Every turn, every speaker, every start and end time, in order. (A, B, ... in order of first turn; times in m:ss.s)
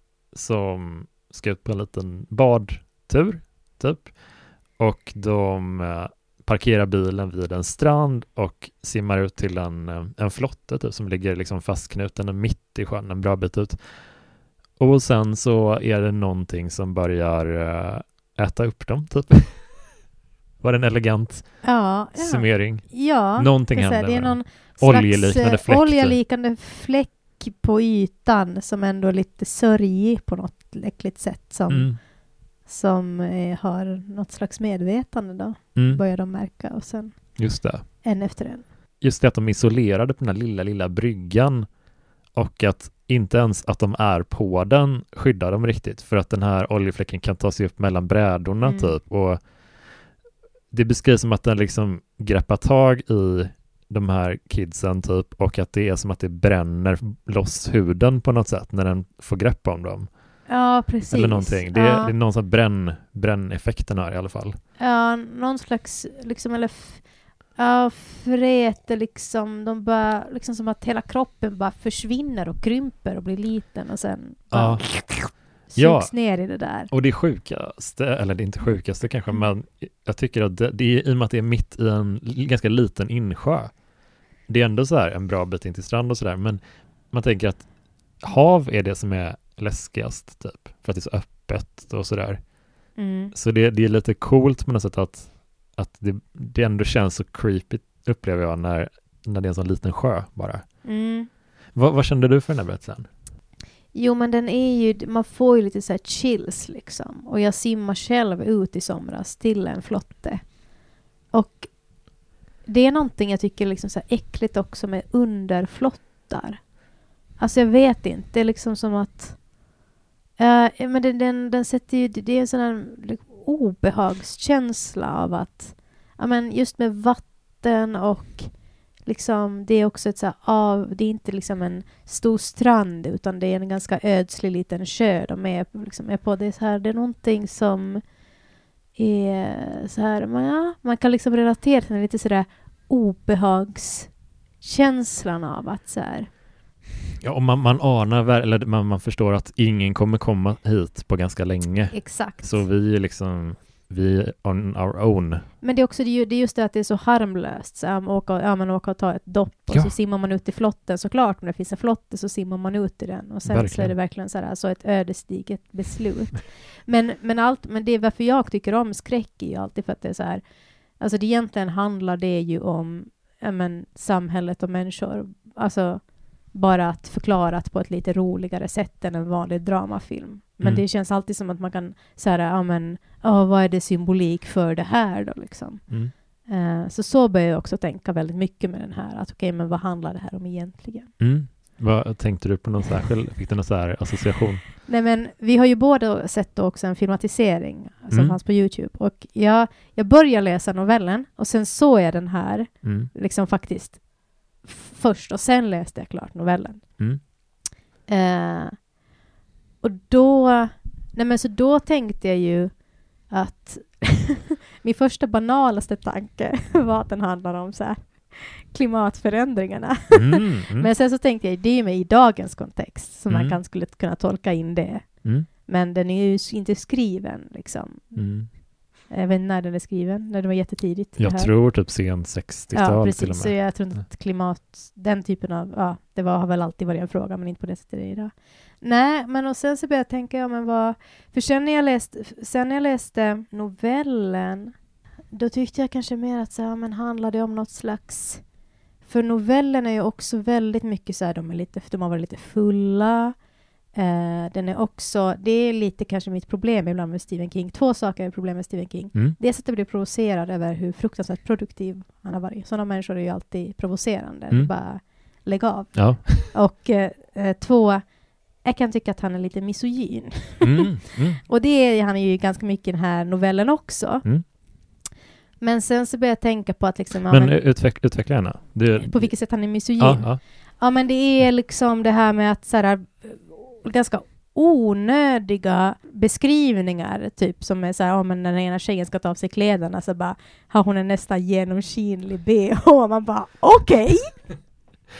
0:00.3-0:04.2 A
0:04.8-0:14.0 A
0:14.8-0:19.8 A
0:20.6-0:26.2 A
0:21.6-0:37.5 B
0:31.7-0:32.0 A
0:35.8-0:36.0 A
0:37.4-0:37.9 A
0:38.0-0:38.6 B
0:39.0-0:41.7 A
0:42.3-0:49.5 A
0:48.6-0:48.9 B
0:50.7-1:00.1 A
1:00.5-1:02.1 B
1:01.1-1:04.6 A
1:04.8-1:16.9 B
1:14.5-1:23.8 A
1:24.5-1:32.6 A
1:33.0-1:33.3 B
1:33.3-1:40.9 A
1:40.8-1:41.3 B
1:41.7-1:43.1 A
1:43.9-1:50.7 B
1:51.3-1:56.8 B
1:57.4-1:59.5 B
2:00.4-2:18.1 B
2:19.0-2:26.3 B
2:27.2-2:35.5 A
2:31.9-2:32.6 B
2:35.6-3:11.1 B
2:43.5-2:44.0 A
3:11.2-3:14.6 A
3:14.8-3:24.1 B
3:18.1-3:18.4 A
3:22.8-3:23.1 A
3:24.6-3:27.4 B
3:28.1-3:28.9 B
3:29.8-3:51.6 B
3:40.1-3:40.9 A
3:43.3-3:43.6 A
3:48.1-3:48.5 A
3:51.2-3:54.0 A
3:52.7-4:04.8 B
4:05.3-4:08.5 B
4:09.0-4:13.4 B
4:13.9-4:34.6 B
4:25.9-4:26.4 A
4:30.6-4:31.4 A
4:35.6-4:37.6 B
4:37.3-4:40.4 A
4:39.0-4:54.6 B